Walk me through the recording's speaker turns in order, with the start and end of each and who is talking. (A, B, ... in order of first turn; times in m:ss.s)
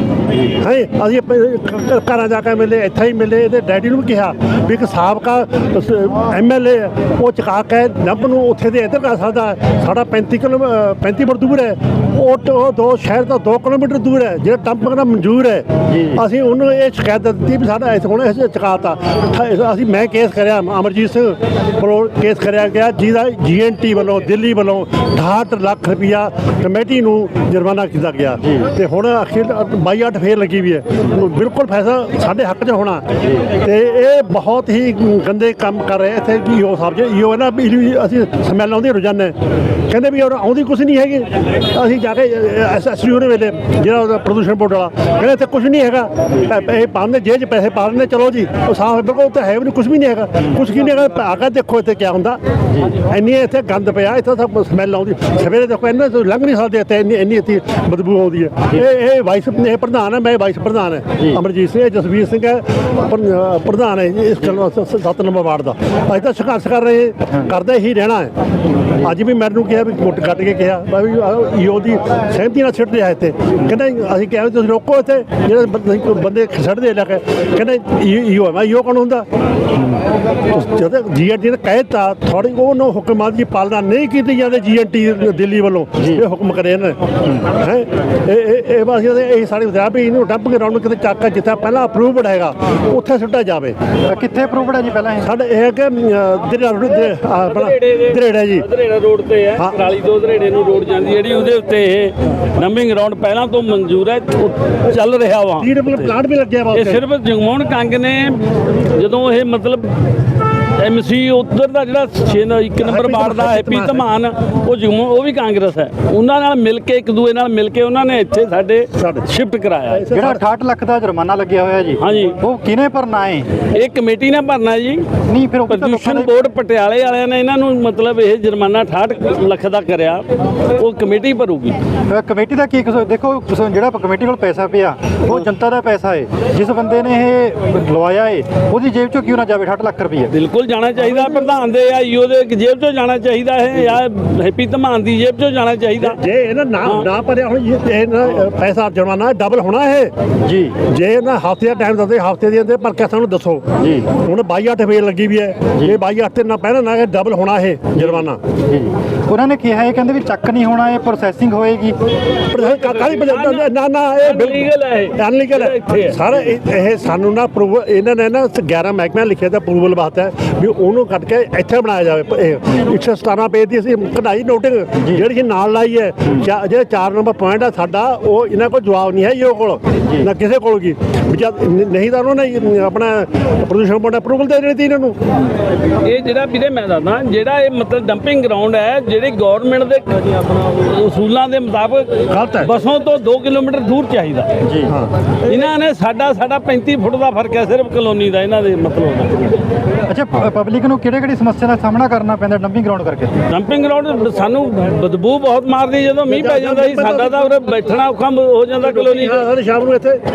0:00.4-0:39.4 A
0:15.9-0:16.2 B
0:39.9-1:08.3 A
1:09.0-1:19.3 A
1:20.5-1:33.8 A
1:34.1-1:35.3 B
1:35.2-1:38.7 A
1:37.5-1:46.1 C
1:45.6-1:47.0 A
1:46.7-1:49.9 C
1:50.8-2:00.1 C
1:52.8-1:54.0 A
1:59.0-1:59.3 A
1:59.9-2:00.4 A
2:00.1-2:03.6 B
2:02.0-2:02.4 C
2:03.7-2:05.1 C
2:05.3-2:06.4 B
2:05.7-2:10.2 C
2:10.8-2:11.8 C
2:12.1-2:20.3 B
2:20.3-2:26.2 C
2:26.0-2:30.1 A
2:30.4-2:30.7 B
2:30.8-2:38.4 A
2:33.8-2:34.1 B
2:38.7-2:42.0 B
2:42.5-3:05.2 A
2:42.6-2:46.3 C
2:55.0-2:55.2 B
3:06.0-3:14.5 C
3:12.3-3:12.7 A
3:14.6-3:14.9 B
3:15.4-3:19.6 C
3:20.1-3:23.4 B
3:23.5-3:29.5 C
3:26.3-3:27.5 A
3:28.8-3:30.2 A